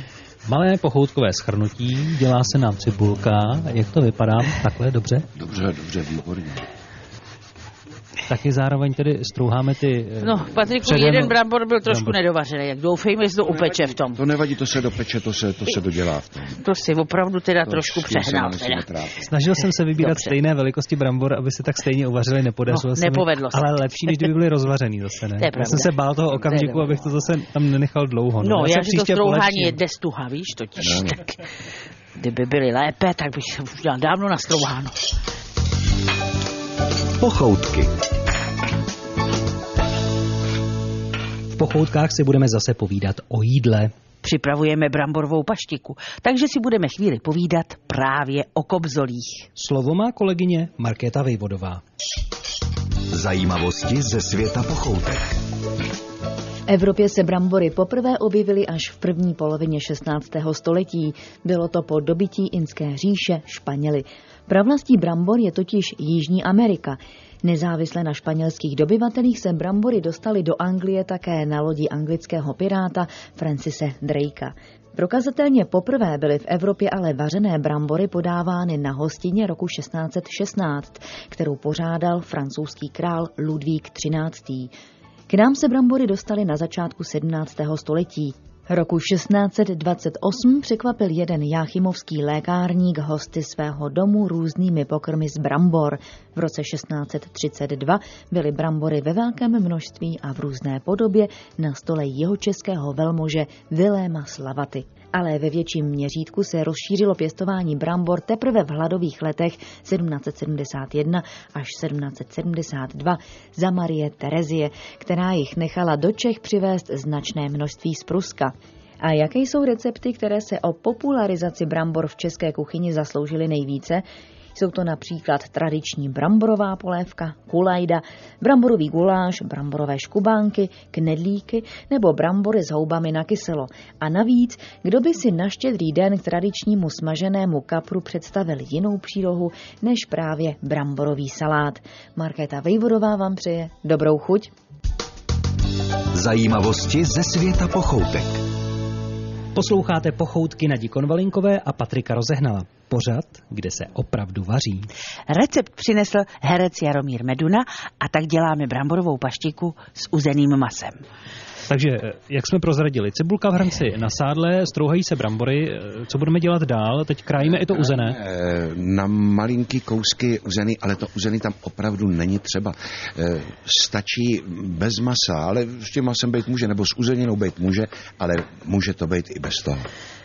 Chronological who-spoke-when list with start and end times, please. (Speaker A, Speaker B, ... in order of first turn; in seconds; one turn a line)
Speaker A: 0.5-5.3
Speaker B: 5.3-6.7
Speaker A: 8.3-12.2
Speaker C: 10.2-14.2
Speaker B: 13.4-16.6
Speaker C: 16.6-18.8
Speaker B: 17.6-19.3
Speaker A: 19.2-29.8
Speaker C: 19.9-20.4
Speaker C: 22.7-24.3
Speaker C: 25.4-27.0
Speaker C: 28.4-31.3
Speaker B: 30.8-31.3
Speaker C: 32.1-35.0
Speaker D: 37.2-37.9
Speaker A: 41.5-43.9
Speaker C: 44.2-49.5
Speaker A: 49.5-51.8
Speaker D: 53.1-55.4
Speaker E: 56.7-84.7
Speaker E: 85.3-144.5
Speaker D: 146.1-148.4
Speaker A: 149.5-154.9
Speaker C: 155.3-161.0
Speaker A: 161.7-168.2
Speaker B: 167.4-179.9